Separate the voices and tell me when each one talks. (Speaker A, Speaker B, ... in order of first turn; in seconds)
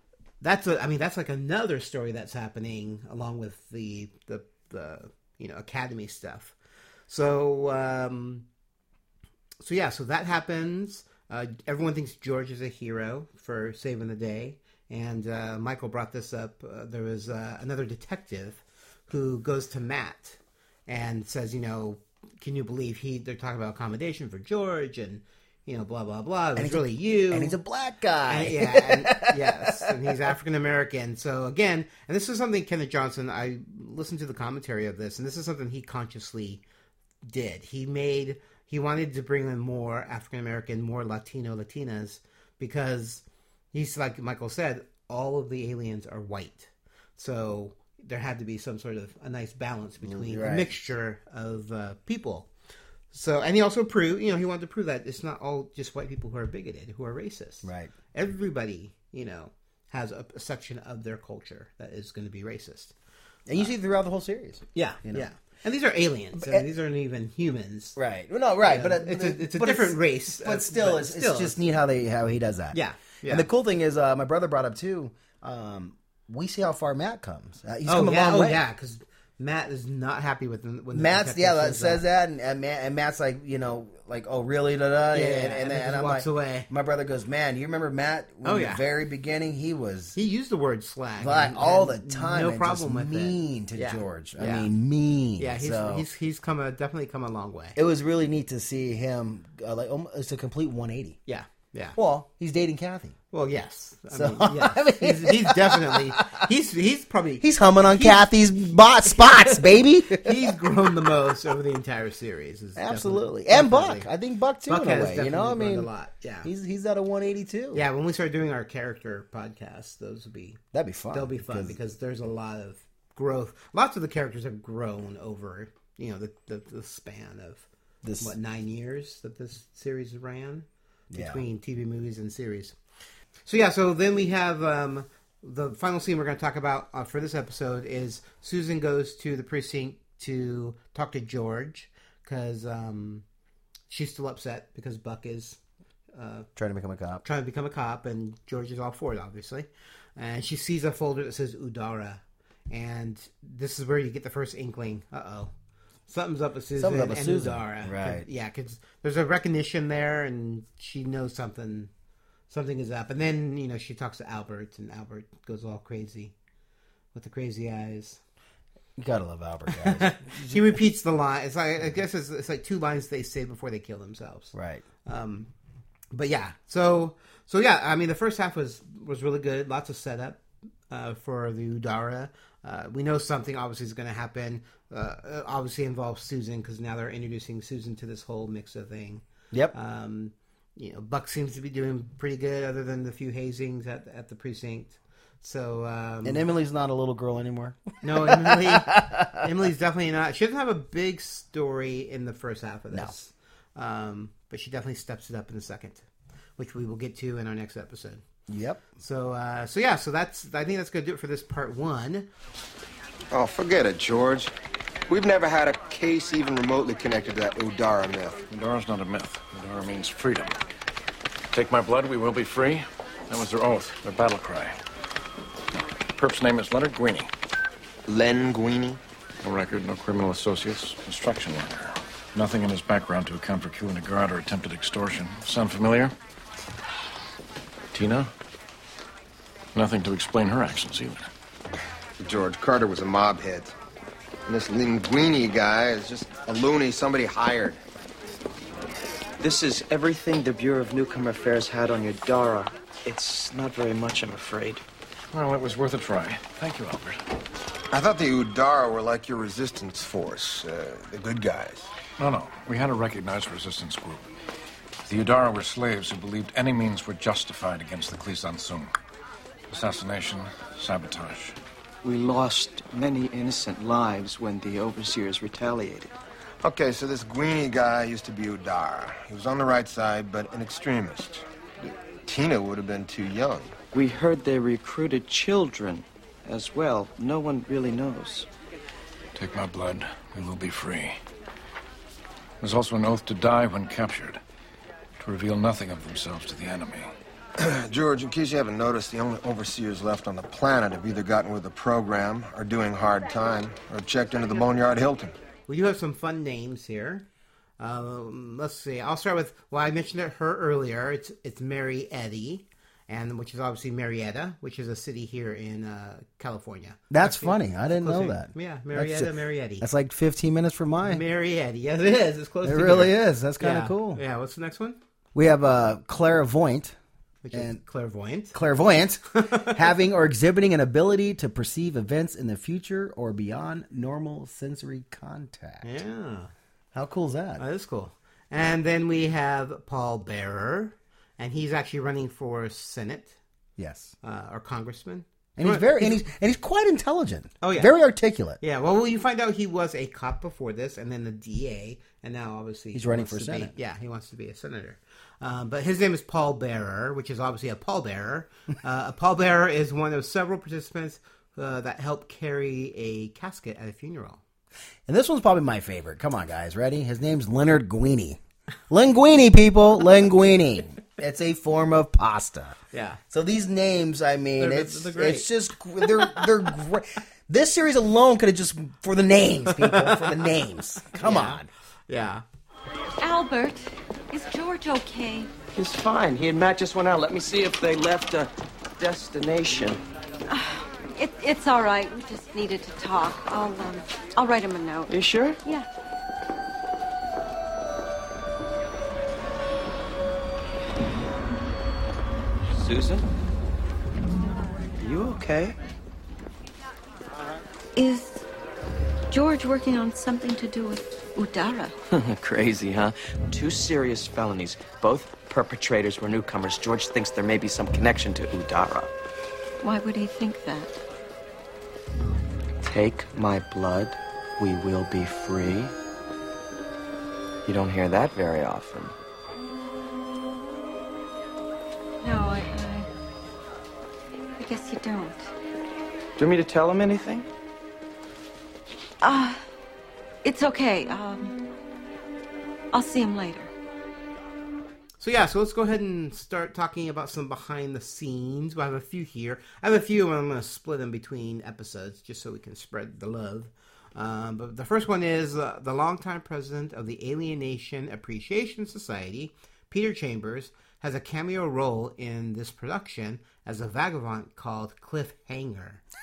Speaker A: 0.4-6.5, 7.1-8.4, 9.6-27.6, 28.3-36.6, 37.2-52.5, 53.1-62.9, 64.7-68.0, 68.7-71.6, 72.7-73.5, 77.9-82.0, 85.1-86.7, 88.4-88.8, 90.2-94.7, 95.4-97.8, 101.3-102.0, 103.3-114.1, 114.7-116.5, 117.7-120.6, 121.1-127.7, 128.2-132.8, 133.5-143.2, 143.9-145.6, 146.2-146.5, 147.2-155.5, 156.1-161.9, 162.5-166.3, 167.1-168.2, 169.7-174.5, 175.1-175.5, 176.1-196.4, 198.0-206.1, 206.6-208.2, 209.0-212.3, 305.7-307.2, 307.8-319.9, 321.0-325.0, 327.4-328.6, 329.4-329.9, 335.8-336.5, 337.6-343.4, 344.2-346.2, 347.6-347.9, 348.6-364.4, 372.9-373.2, 374.6-376.7, 379.7-380.5, 381.1-382.4, 445.2-466.0
Speaker B: 26.6-30.1, 50.0-50.8, 57.6-57.9, 63.5-65.3, 66.4-66.7, 68.0-78.6, 80.9-90.2, 91.2-96.1, 97.8-101.2, 102.0-103.2, 104.1-106.4, 107.4-110.5, 112.8-115.9, 116.4-117.8, 120.7-121.8, 128.0-128.3, 131.1-131.4, 146.6-147.2, 156.8-158.3, 169.0-170.8, 174.5-174.8, 196.2-199.5, 208.5-208.8, 317.1-321.2, 322.6-324.2, 325.4-327.0, 327.5-327.8, 328.5-336.0, 336.9-337.6, 343.8-344.1, 345.6-348.6, 352.9-353.7, 365.1-372.8, 373.3-381.7
Speaker C: 213.3-214.5, 215.1-218.4, 228.1-229.0, 242.2-243.7, 244.5-247.8, 257.9-261.9, 276.6-283.8, 297.6-305.4
Speaker D: 218.5-220.6, 221.5-224.8, 226.2-227.3, 229.4-236.1, 237.9-238.3, 239.8-241.2, 255.3-257.2, 262.2-264.2, 265.1-268.9, 269.7-271.6, 289.4-291.2, 292.6-294.4, 295.2-297.1
Speaker E: 249.4-254.8, 272.0-276.1, 283.9-288.5, 385.7-390.0, 395.1-395.6, 402.7-403.2, 405.0-405.8, 412.1-419.1, 422.8-425.9, 427.6-429.1, 436.4-437.5
Speaker F: 383.2-385.5, 390.5-395.1, 408.0-408.4, 409.3-412.0, 419.8-421.0, 432.2-433.1, 434.6-435.5, 439.2-439.6, 440.4-441.6, 442.9-443.7